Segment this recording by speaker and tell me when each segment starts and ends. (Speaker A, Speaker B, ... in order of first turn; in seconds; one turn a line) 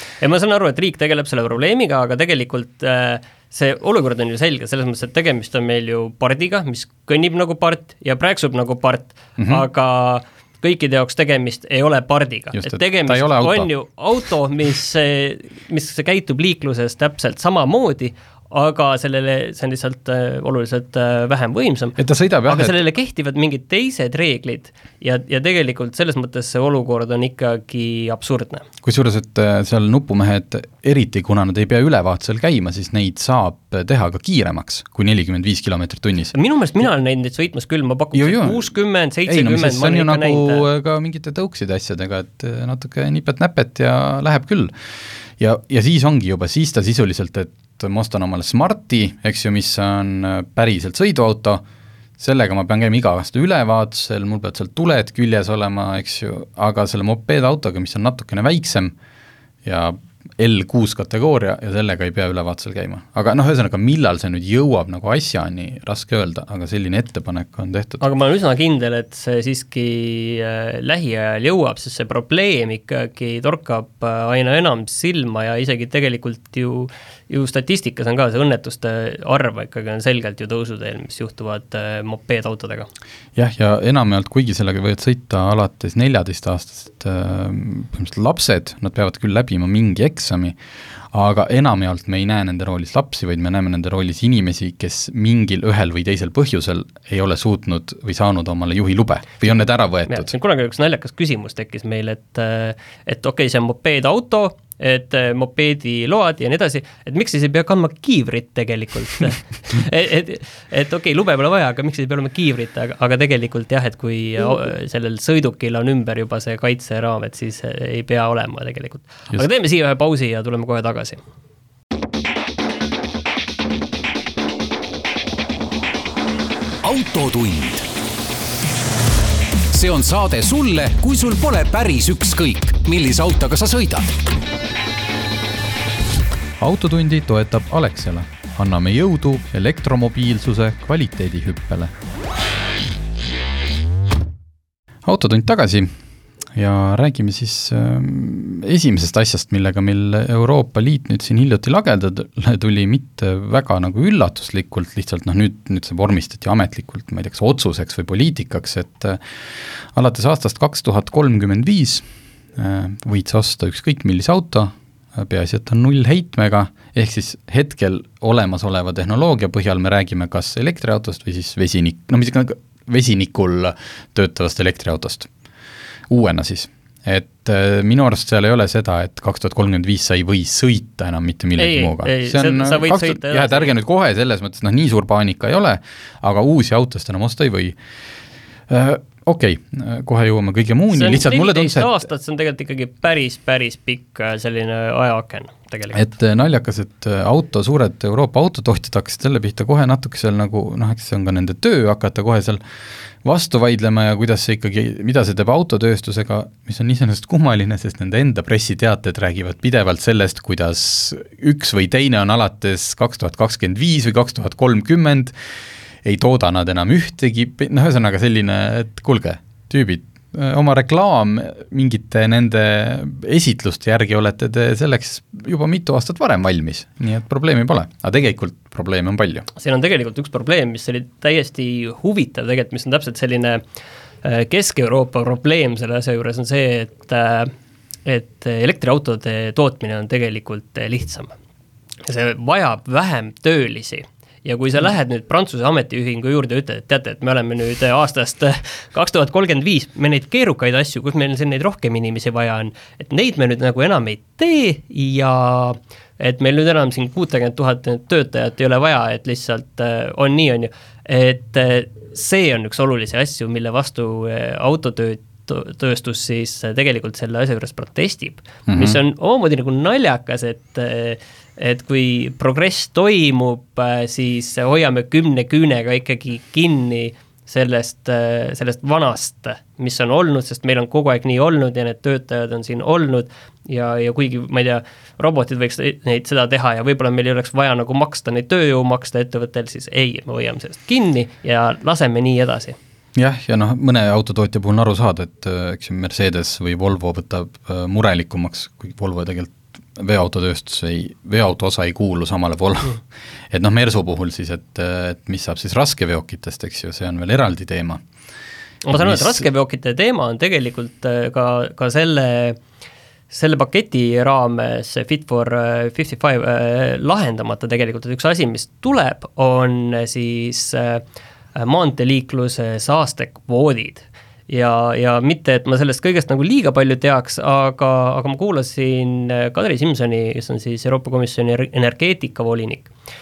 Speaker A: 0.2-28.7
Speaker B: 9.4-9.6
Speaker B: 12.5-13.7
Speaker B: 22.0-22.8
Speaker B: 28.8-36.4
Speaker A: 36.4-40.6
Speaker B: 38.1-38.7
Speaker B: 39.3-51.6
Speaker B: 52.2-58.9
Speaker B: 59.6-68.0
Speaker A: 68.0-82.9
Speaker B: 83.4-90.6
Speaker B: 91.1-100.3
Speaker A: 100.1-121.2
Speaker C: 126.8-127.9
Speaker C: 129.7-134.1
Speaker B: 136.6-141.9
Speaker B: 145.0-145.9
Speaker B: 146.6-175.3
Speaker B: 176.1-187.8
Speaker A: 181.6-183.7
Speaker B: 188.7-192.1
Speaker A: 190.9-196.0
Speaker B: 195.9-202.6
Speaker B: 203.2-215.3
Speaker B: 216.0-229.5
Speaker A: 229.6-233.6
Speaker A: 234.2-237.5
Speaker A: 238.1-241.3
Speaker A: 242.1-292.8
Speaker B: 268.7-269.0
Speaker B: 293.1-303.0
Speaker B: 303.5-308.0
Speaker A: 308.8-312.6
Speaker B: 308.9-309.4
Speaker A: 313.3-321.0
Speaker A: 321.6-332.9